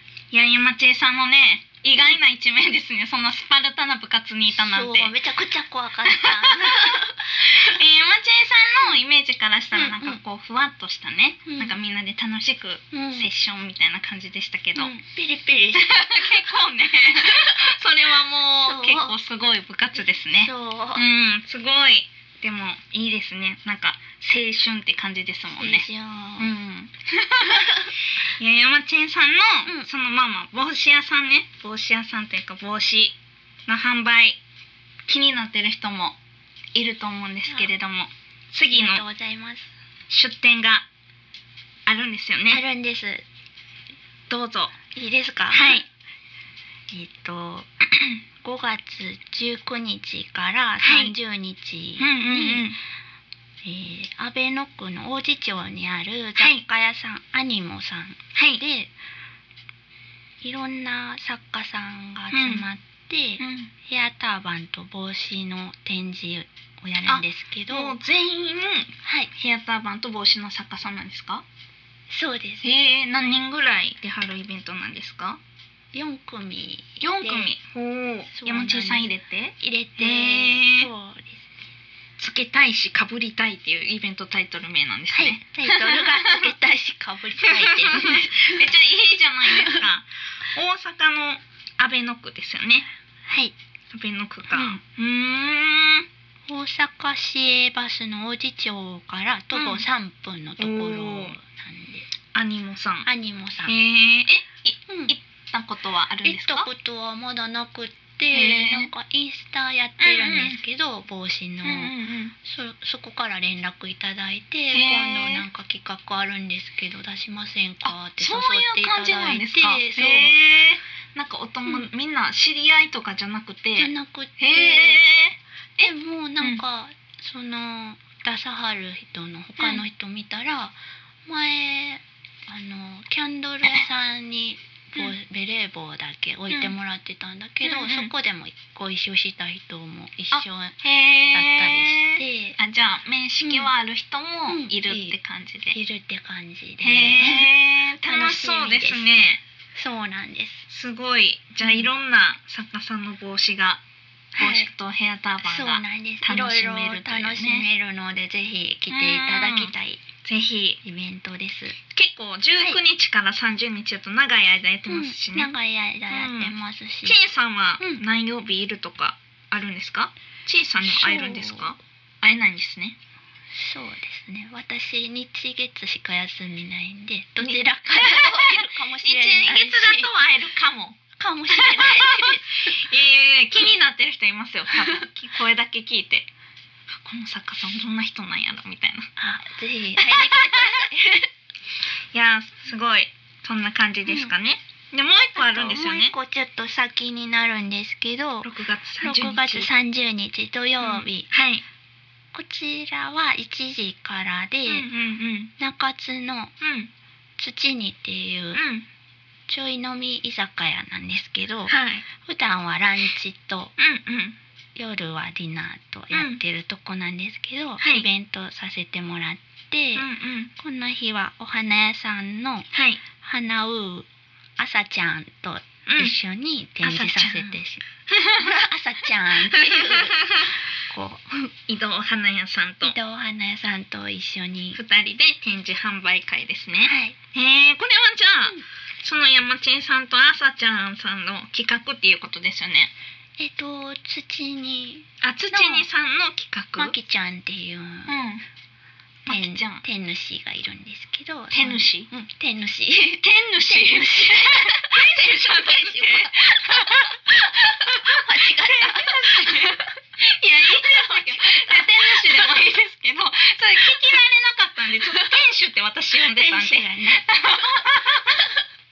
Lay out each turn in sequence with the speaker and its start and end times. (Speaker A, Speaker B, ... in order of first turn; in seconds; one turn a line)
Speaker A: 0.3-5.2
Speaker B: 4.6-7.8
Speaker A: 6.1-14.9
Speaker B: 9.7-10.2
Speaker B: 11.5-11.8
Speaker B: 12.9-13.3
Speaker B: 14.8-16.4
Speaker A: 15.8-25.9
Speaker B: 17.2-17.6
Speaker B: 18.6-19.2
Speaker B: 20.4-21.0
Speaker B: 25.6-26.5
Speaker A: 26.4-34.4
Speaker B: 27.4-27.9
Speaker B: 29.6-29.9
Speaker A: 35.1-36.2
Speaker A: 36.8-39.0
Speaker B: 38.7-39.7
Speaker A: 40.1-40.9
Speaker A: 41.9-42.6
Speaker B: 42.5-43.2
Speaker A: 44.3-44.8
Speaker B: 44.9-45.8
Speaker A: 45.5-45.9
Speaker B: 46.9-52.7
Speaker A: 50.8-51.1
Speaker A: 52.0-52.8
Speaker B: 53.6-58.9
Speaker A: 56.4-56.6
Speaker A: 58.4-58.6
Speaker B: 60.4-68.0
Speaker A: 62.3-62.6
Speaker A: 63.4-63.7
Speaker A: 67.1-71.5
Speaker B: 69.0-69.3
Speaker B: 72.1-72.7
Speaker A: 72.6-75.4
Speaker B: 75.9-77.5
Speaker A: 77.0-80.9
Speaker B: 78.3-81.5
Speaker A: 82.2-86.5
Speaker B: 85.1-88.6
Speaker A: 87.4-92.9
Speaker B: 89.5-89.8
Speaker B: 93.3-93.5
Speaker A: 93.9-96.1
Speaker B: 94.5-94.8
Speaker B: 96.5-102.1
Speaker A: 99.5-99.8
Speaker A: 100.6-101.3
Speaker A: 102.3-103.1
Speaker B: 103.0-103.8
Speaker A: 103.7-106.7
Speaker B: 104.9-105.1
Speaker B: 106.2-120.4
Speaker A: 108.3-108.9
Speaker A: 110.0-110.6
Speaker A: 111.6-112.3
Speaker A: 114.7-115.5
Speaker A: 117.8-126.6
Speaker B: 123.8-125.0
Speaker B: 125.8-142.6
Speaker A: 129.6-129.8
Speaker A: 136.5-136.8
Speaker A: 137.6-138.1
Speaker A: 140.3-145.8
Speaker B: 143.4-143.7
Speaker B: 144.5-145.2
Speaker B: 145.7-147.5
Speaker A: 146.8-149.4
Speaker B: 148.1-149.1
Speaker B: 149.8-150.7
Speaker A: 150.7-153.8
Speaker B: 154.3-154.7
Speaker A: 154.4-157.7
Speaker B: 155.4-160.0
Speaker A: 158.9-159.7
Speaker A: 160.2-160.8
Speaker B: 160.8-161.8
Speaker A: 161.9-165.5
Speaker B: 164.9-167.2
Speaker A: 166.1-173.0
Speaker B: 170.9-171.8
Speaker B: 173.5-180.1
Speaker A: 177.4-181.0
Speaker B: 181.2-182.8
Speaker A: 181.5-186.3
Speaker A: 187.0-189.1
Speaker B: 189.2-191.3
Speaker A: 190.0-190.8
Speaker A: 192.1-196.1
Speaker B: 194.1-194.3
Speaker B: 195.4-198.5
Speaker A: 198.4-199.7
Speaker B: 199.0-201.3
Speaker A: 200.8-201.6
Speaker B: 202.3-204.9
Speaker A: 204.7-205.5
Speaker B: 205.6-206.5
Speaker A: 206.6-206.9
Speaker B: 207.4-208.6
Speaker A: 208.6-208.9
Speaker B: 209.5-213.7
Speaker A: 211.7-212.1
Speaker A: 213.8-214.4
Speaker B: 214.8-231.5
Speaker A: 216.1-216.4
Speaker A: 217.8-218.1
Speaker A: 220.0-220.5
Speaker A: 222.7-223.0
Speaker A: 225.9-226.2
Speaker A: 226.8-228.5
Speaker A: 229.5-230.5
Speaker A: 231.7-233.0
Speaker B: 232.8-234.8
Speaker A: 234.7-242.9
Speaker B: 236.8-237.2
Speaker B: 243.4-245.9
Speaker A: 245.2-246.9
Speaker B: 246.8-248.1
Speaker A: 248.1-248.4
Speaker A: 249.3-249.8
Speaker B: 249.3-260.0
Speaker A: 251.5-252.1
Speaker A: 253.2-268.5
Speaker B: 260.7-262.5
Speaker B: 265.1-265.3
Speaker B: 266.3-268.6